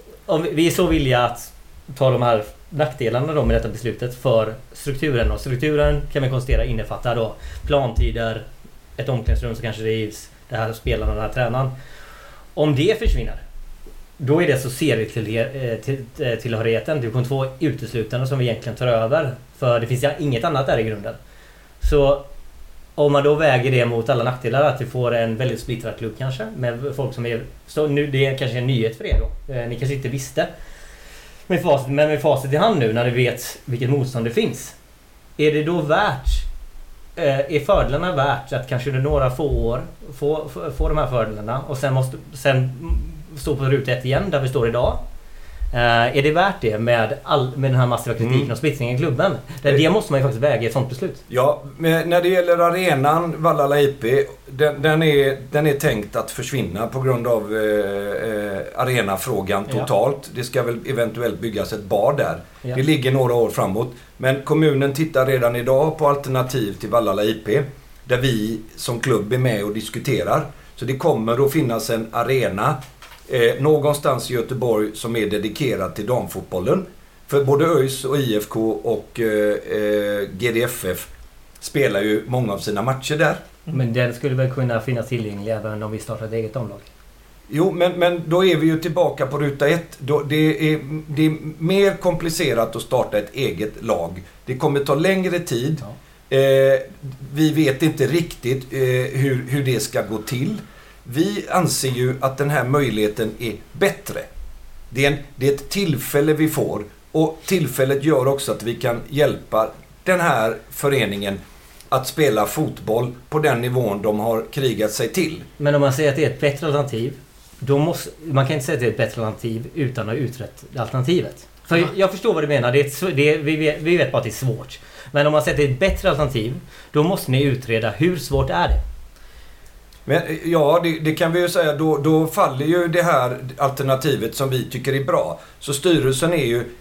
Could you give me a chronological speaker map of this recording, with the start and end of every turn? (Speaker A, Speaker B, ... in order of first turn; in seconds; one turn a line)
Speaker A: 0.3-8.5
Speaker A: 9.0-11.7
Speaker A: 12.6-13.4
Speaker A: 14.2-21.2
Speaker A: 21.8-22.3
Speaker A: 23.0-30.5
Speaker A: 31.5-34.8
Speaker A: 35.4-36.5
Speaker A: 37.2-45.0
Speaker A: 45.7-51.2
Speaker B: 48.2-48.5
Speaker B: 51.3-81.1
Speaker B: 81.6-83.5
Speaker A: 83.7-86.9
Speaker B: 87.5-104.2
Speaker B: 104.9-115.5
Speaker A: 115.6-128.8
Speaker B: 130.1-136.7